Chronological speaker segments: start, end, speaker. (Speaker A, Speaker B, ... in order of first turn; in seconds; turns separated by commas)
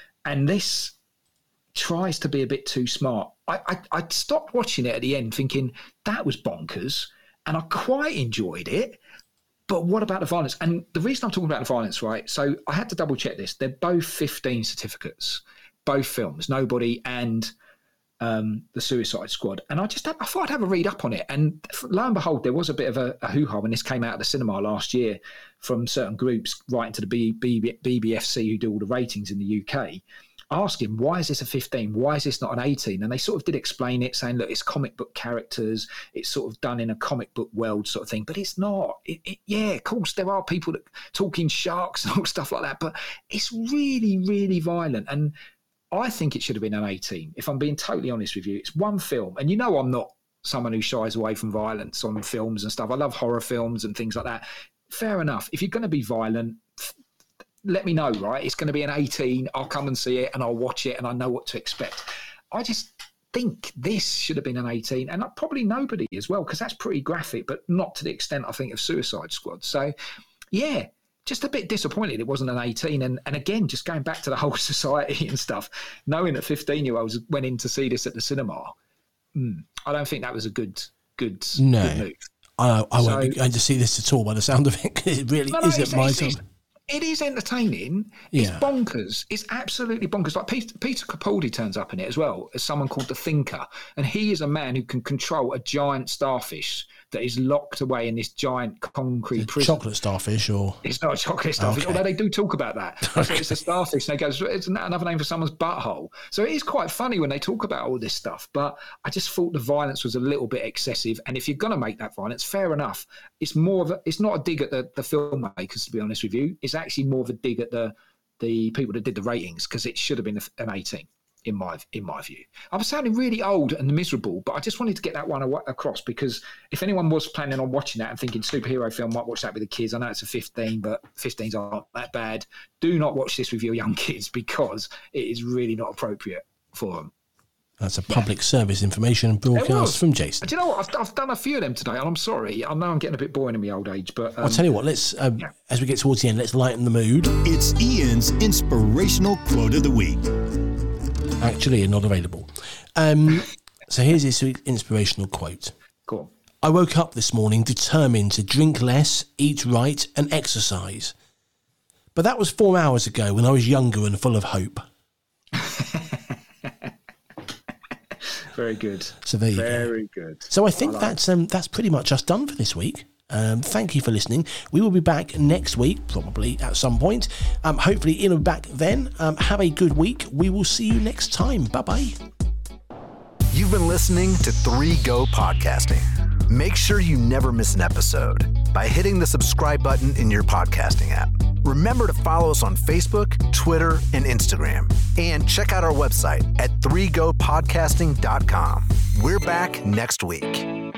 Speaker A: 0.2-0.9, Speaker A: 1.7-9.0, Speaker A: 9.7-17.5, Speaker A: 18.2-45.3, Speaker A: 45.9-56.9, Speaker A: 57.6-69.9, Speaker A: 70.5-78.7, Speaker A: 79.3-82.3, Speaker B: 81.6-82.1, Speaker B: 82.6-86.4, Speaker A: 83.0-83.4, Speaker A: 85.5-99.8, Speaker B: 88.3-88.7, Speaker B: 99.4-100.8, Speaker A: 100.8-137.1, Speaker B: 101.6-102.0, Speaker B: 103.1-103.5, Speaker B: 137.8-140.5, Speaker A: 139.5-144.6, Speaker B: 144.4-147.3, Speaker C: 147.4-150.2, Speaker D: 147.6-148.8, Speaker B: 151.4-155.7, Speaker B: 156.6-161.1, Speaker B: 162.1-164.8, Speaker A: 165.5-166.7, Speaker A: 168.2-171.2, Speaker B: 169.2-169.9, Speaker B: 170.5-182.1, Speaker D: 183.5-200.7